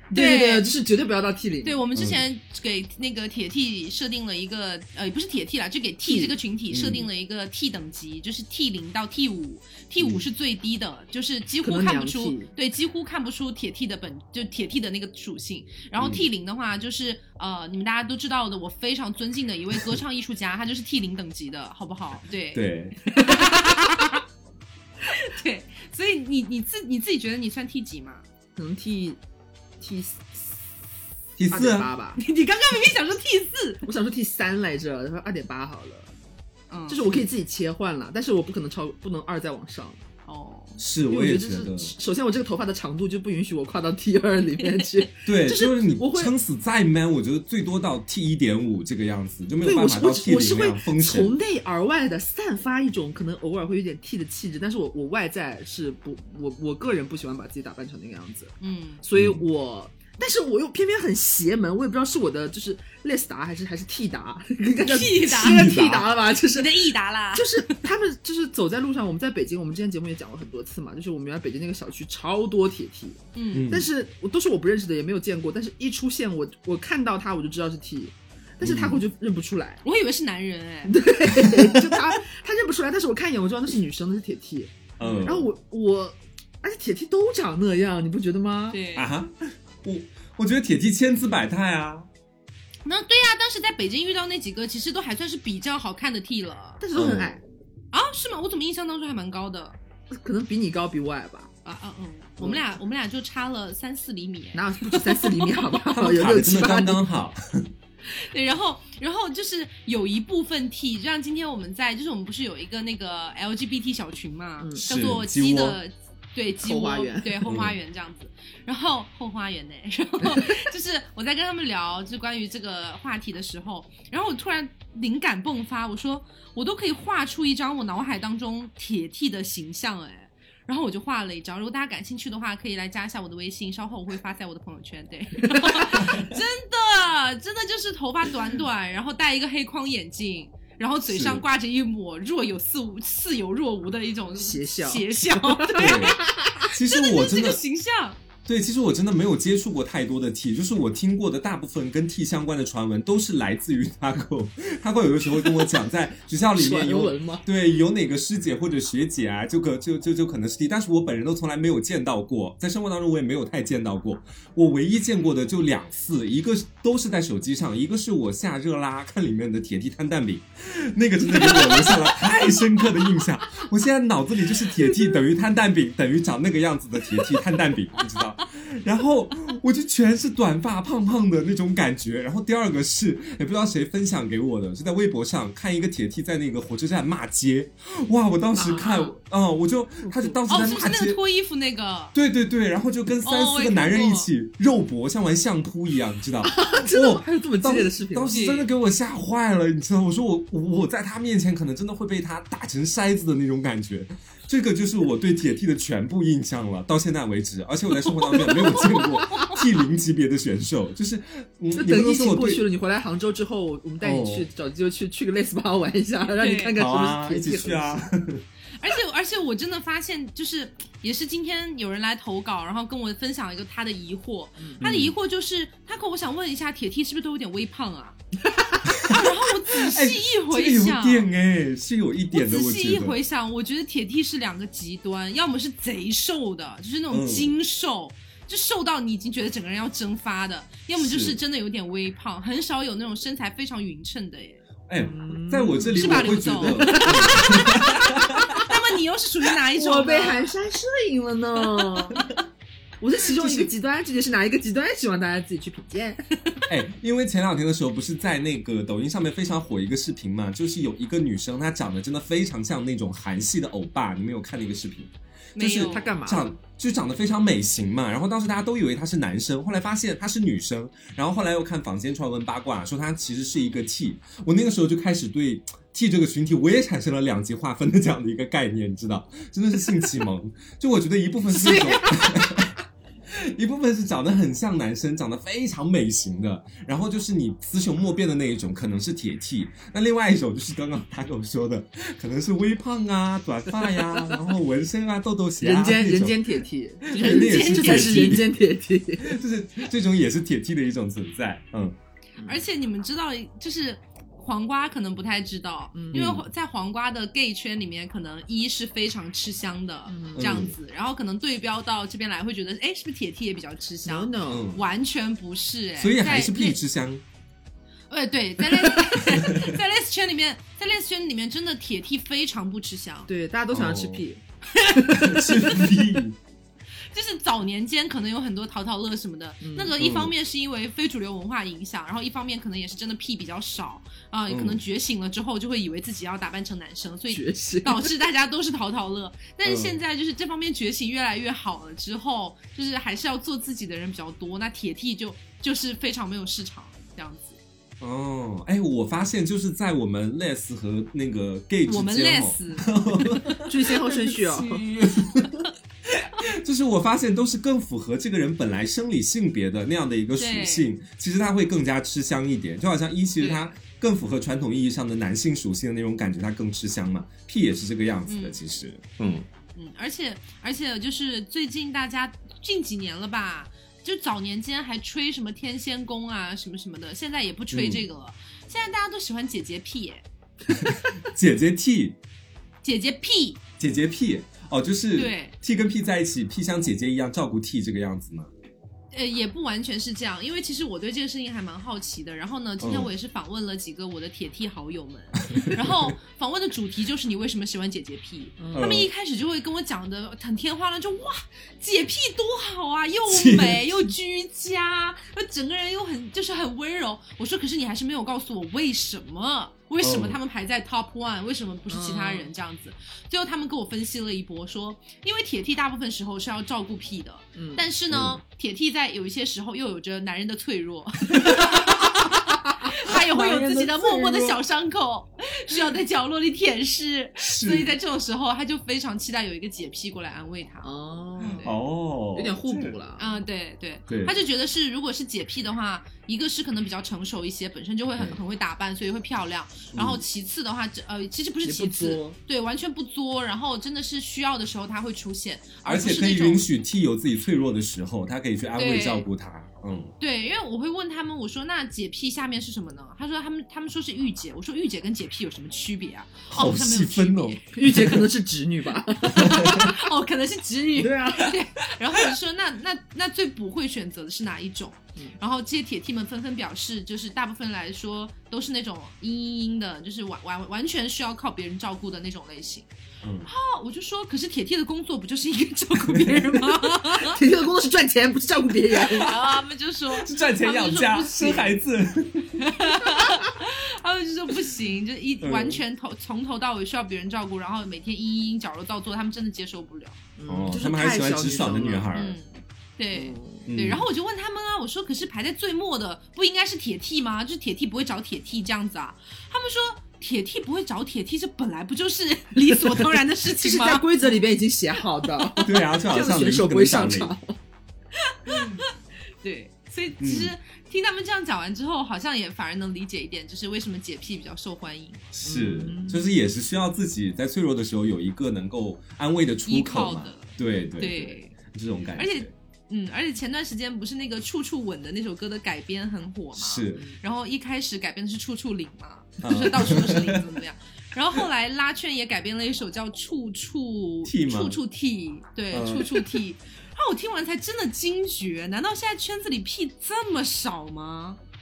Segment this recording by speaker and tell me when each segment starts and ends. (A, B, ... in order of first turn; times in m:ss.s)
0:00.1-0:01.8 A
0:00.1-0:00.7 B
0:01.6-0:24.2 B
0:02.0-0:02.2 C
0:06.0-0:06.4 A
0:06.7-0:07.1 C
0:11.6-0:12.5 A
0:16.0-0:16.2 C
0:22.5-0:23.0 C
0:25.1-0:28.2 B
0:28.6-0:29.2 A
0:29.8-0:30.5 A
0:31.4-0:31.9 C
0:31.5-0:32.2 A
0:32.2-0:33.8 B
0:33.8-0:36.1 A
0:36.7-0:37.2 B
0:36.9-0:40.0 A
0:40.3-0:40.8 B
0:40.8-0:41.9 C
0:41.1-0:46.3 A
0:45.3-0:51.4 C
0:49.6-1:19.8 A
0:58.6-0:59.0 B
0:59.2-0:59.4 C
1:04.8-1:05.7 B
1:05.3-1:06.1 C
1:06.4-1:07.8 B
1:13.4-1:13.7 B
1:13.5-1:13.9 C
1:18.6-1:19.0 C
1:19.8-1:21.0 B
1:20.9-1:28.8 A
1:21.3-1:21.9 C
1:25.0-1:25.5 C
1:25.0-1:25.3 B
1:28.7-1:29.1 B
1:29.0-1:32.1 C
1:32.9-1:36.8 B
1:36.8-1:37.4 A
1:37.0-1:37.4 C
1:37.9-1:39.8 B
1:40.1-1:41.5 A
1:41.6-1:45.6 B
1:44.6-1:47.0 A
1:45.9-1:47.7 C
1:48.1-2:28.2 B
1:54.6-1:54.8 A
1:54.8-1:55.8 C
1:56.6-1:57.5 A
1:57.5-1:57.8 C
2:21.0-2:21.4 C
2:24.4-2:26.5 A
2:25.8-2:26.2 C
2:26.7-2:27.6 C
2:28.5-3:11.2 C
2:36.6-2:37.5 A
3:08.6-3:09.2 A
3:10.0-3:10.4 A
3:10.5-3:12.2 B
3:12.1-3:32.6 C
3:13.2-3:14.3 B
3:16.4-3:18.4 A
3:18.3-3:18.7 B
3:28.1-3:29.6 A
3:29.2-3:29.6 B
3:31.8-3:38.0 A
3:34.0-3:34.5 C
3:36.4-3:36.8 B
3:36.8-3:38.4 C
3:38.8-3:48.2 B
3:44.8-3:45.1 C
3:48.9-3:53.2 C
3:49.0-3:51.3 B
3:52.3-4:04.6 B
3:57.1-3:57.5 C
4:01.0-4:01.4 C
4:04.9-4:08.7 C
4:05.0-4:07.8 A
4:05.9-4:10.5 B
4:09.8-4:12.2 A
4:11.7-4:12.3 B
4:13.0-4:16.2 A
4:13.4-4:13.7 C
4:16.7-4:42.7 C
4:25.6-4:26.2 B
4:25.8-4:26.5 A
4:41.5-4:42.7 A
4:43.3-4:56.6 C
4:55.6-4:59.4 A
4:57.1-4:58.4 B
4:57.1-4:58.5 C
4:59.2-5:02.0 C
5:02.4-5:16.8 B
5:05.9-5:06.2 A
5:06.1-5:06.5 C
5:10.1-5:10.6 A
5:10.4-5:10.8 C
5:14.0-5:14.7 A
5:14.5-5:14.8 C
5:16.0-5:17.2 C
5:18.1-5:23.3 B
5:18.9-5:19.8 C
5:23.3-5:26.0 A
5:23.7-5:24.2 C
5:25.2-5:26.4 C
5:27.1-5:47.6 B
5:29.6-5:30.0 A
5:30.0-5:30.3 C
5:34.5-5:34.8 C
5:37.3-5:38.1 A
5:39.6-5:40.0 C
5:48.0-6:09.5 C
5:51.9-5:53.5 B
5:53.6-5:54.8 A
5:54.1-5:55.5 B
6:00.4-6:00.9 B
6:03.4-6:03.7 B
6:08.3-6:08.6 B
6:09.8-6:20.2 B
6:17.7-6:18.0 C
6:20.7-6:22.2 C
6:22.8-6:23.6 B
6:23.8-6:28.5 C
6:25.2-6:25.6 B
6:29.1-7:10.9 B
6:32.8-6:33.1 C
6:35.5-6:36.1 C
6:38.6-6:38.9 A
6:38.7-6:39.1 C
6:43.3-6:43.9 C
6:50.0-6:50.4 C
6:51.9-6:52.5 A
6:57.6-6:57.8 A
6:58.1-6:58.4 C
7:03.3-7:04.6 C
7:07.4-7:07.9 C
7:10.8-7:11.8 A
7:11.4-7:11.7 B
7:11.4-7:13.0 C
7:12.3-7:13.4 A
7:13.2-7:26.6 B
7:14.1-7:14.4 C
7:19.9-7:20.2 C
7:21.6-7:22.4 A
7:25.8-7:30.1 C
7:28.8-7:29.3 B
7:30.2-7:37.7 B
7:36.5-7:38.3 C
7:37.8-7:40.0 A
7:39.3-7:52.9 B
7:39.3-7:39.9 C
7:41.0-7:41.6 A
7:53.2-7:53.5 C
7:53.4-7:57.4 B
7:56.1-7:56.5 C
7:56.9-7:59.3 A
7:59.1-8:01.8 B
8:00.1-8:02.6 C
8:02.6-8:10.2 B
8:05.4-8:05.8 C
8:10.4-8:12.1 A
8:10.5-8:12.4 C
8:12.1-8:24.4 B
8:13.1-8:13.7 A
8:13.7-8:14.1 C
8:22.7-8:27.6 A
8:25.6-8:27.3 C
8:28.3-8:35.3 B
8:30.2-8:30.5 C
8:35.3-8:42.5 C
8:35.4-8:36.3 A
8:39.7-8:41.6 B
8:42.2-9:01.4 B
8:46.6-8:47.0 C
8:49.4-8:50.4 C
8:54.2-8:54.8 C
8:55.7-8:56.3 C